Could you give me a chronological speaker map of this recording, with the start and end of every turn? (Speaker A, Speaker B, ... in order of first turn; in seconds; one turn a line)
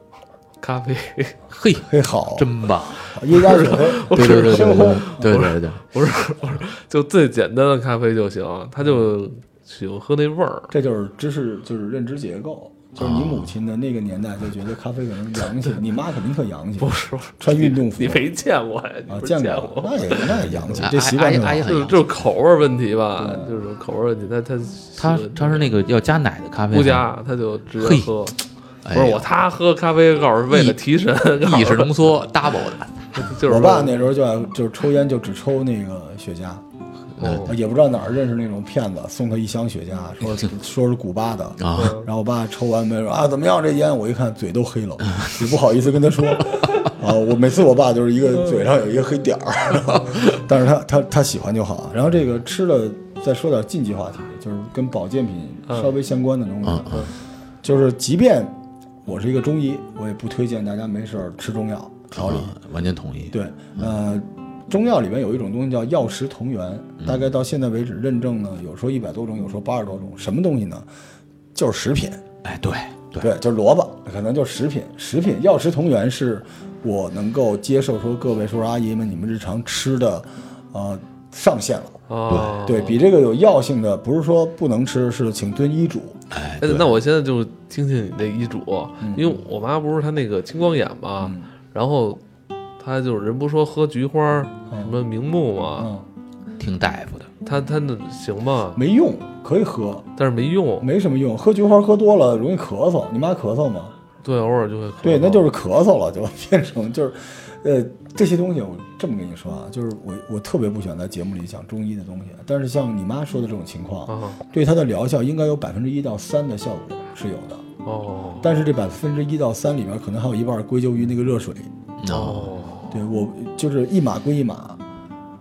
Speaker A: 0.6-1.4
Speaker B: 1.5-5.8
Speaker C: 1.9-2.5
Speaker C: 3.1-5.2
Speaker A: 3.3-10.7
Speaker C: 10.7-18.3
Speaker B: 13.0-13.5
Speaker A: 16.8-20.9
Speaker C: 19.1-21.7
Speaker B: 20.2-22.2
Speaker A: 21.6-25.7
Speaker C: 23.2-23.5
Speaker B: 25.0-27.1
Speaker A: 26.7-32.1
Speaker B: 27.8-28.1
Speaker B: 28.8-29.3
Speaker B: 30.5-30.8
Speaker B: 31.4-33.3
Speaker A: 33.1-34.1
Speaker C: 33.4-36.6
Speaker B: 37.2-37.5
Speaker A: 37.2-37.5
Speaker C: 37.4-57.1
Speaker B: 40.2-40.5
Speaker B: 41.6-42.0
Speaker A: 41.7-42.0
Speaker B: 45.1-45.4
Speaker A: 49.9-50.3
Speaker B: 56.6-57.1
Speaker C: 57.6-62.5
Speaker B: 62.1-63.9
Speaker C: 63.3-70.9
Speaker C: 71.5-72.2
Speaker B: 72.4-73.3
Speaker C: 73.2-82.0
Speaker A: 82.1-83.0
Speaker B: 82.3-82.7
Speaker C: 82.6-86.2
Speaker B: 86.3-87.0
Speaker A: 86.6-92.2
Speaker C: 89.0-89.4
Speaker C: 91.2-91.5
Speaker A: 92.8-95.9
Speaker C: 94.7-95.0
Speaker C: 95.8-96.1
Speaker B: 96.6-97.3
Speaker A: 97.4-98.8
Speaker C: 98.7-100.1
Speaker A: 100.2-100.9
Speaker C: 100.8-103.9
Speaker A: 104.2-105.5
Speaker C: 105.0-117.6
Speaker A: 114.1-114.4
Speaker A: 117.8-118.6
Speaker C: 118.4-121.7
Speaker B: 122.0-122.5
Speaker A: 122.1-123.0
Speaker C: 122.9-124.8